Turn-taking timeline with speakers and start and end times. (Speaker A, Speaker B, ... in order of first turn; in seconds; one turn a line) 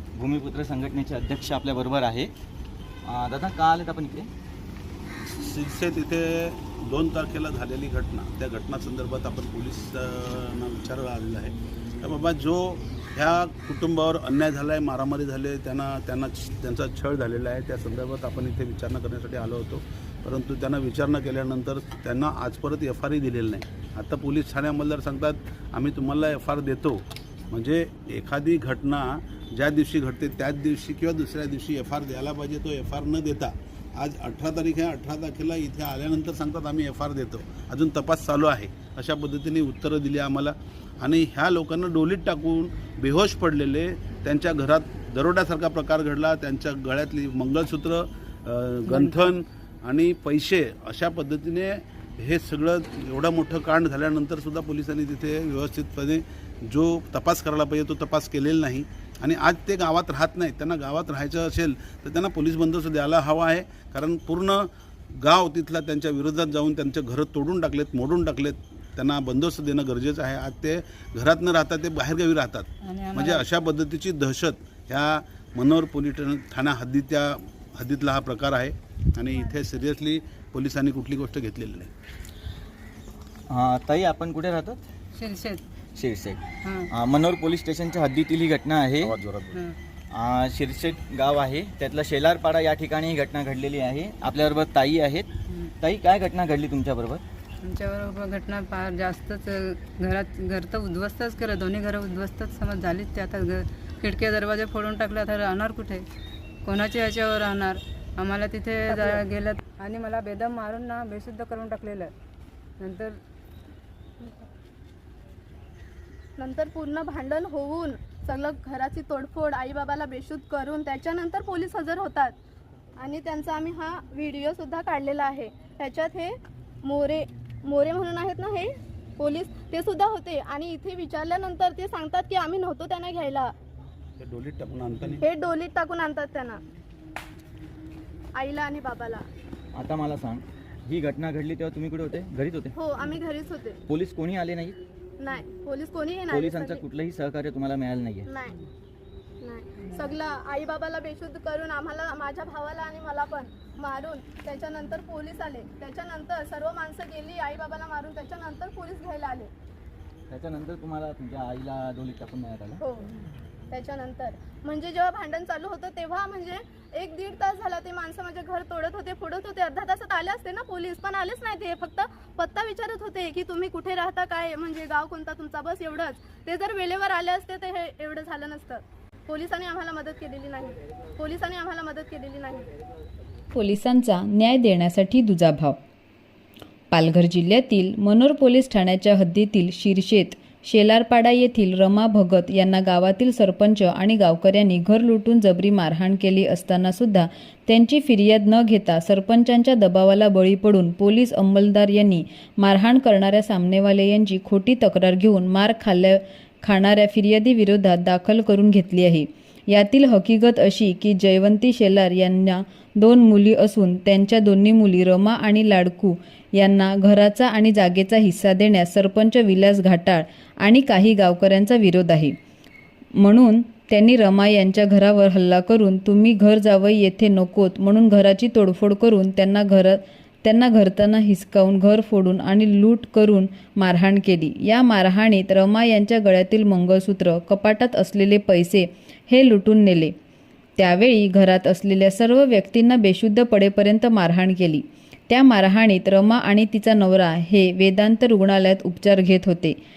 Speaker A: 0.1-2.3
Speaker A: 3.0-4.3
Speaker B: 5.3-81.9
Speaker C: 48.9-49.2
Speaker C: 72.8-73.4
Speaker A: 83.5-84.8
Speaker C: 85.2-85.6
Speaker A: 86.0-89.1
Speaker C: 86.6-86.9
Speaker B: 89.0-89.6
Speaker A: 90.1-95.3
Speaker A: 95.8-97.2
Speaker C: 97.6-106.0
Speaker C: 106.6-112.1
Speaker C: 112.8-113.2
Speaker D: 116.4-122.3
Speaker D: 123.0-133.5
Speaker B: 134.2-135.2
Speaker D: 135.2-136.6
Speaker D: 138.3-139.2
Speaker A: 139.7-142.7
Speaker D: 142.7-143.8
Speaker A: 143.9-144.8
Speaker D: 145.2-146.8
Speaker A: 146.3-148.3
Speaker D: 148.3-148.6
Speaker D: 149.4-159.5
Speaker A: 160.3-162.8
Speaker D: 162.8-163.1
Speaker D: 163.7-182.7
Speaker E: 183.5-185.8
Speaker E: 186.9-222.3
Speaker E: 223.2-240.1
Speaker E: 240.8-249.8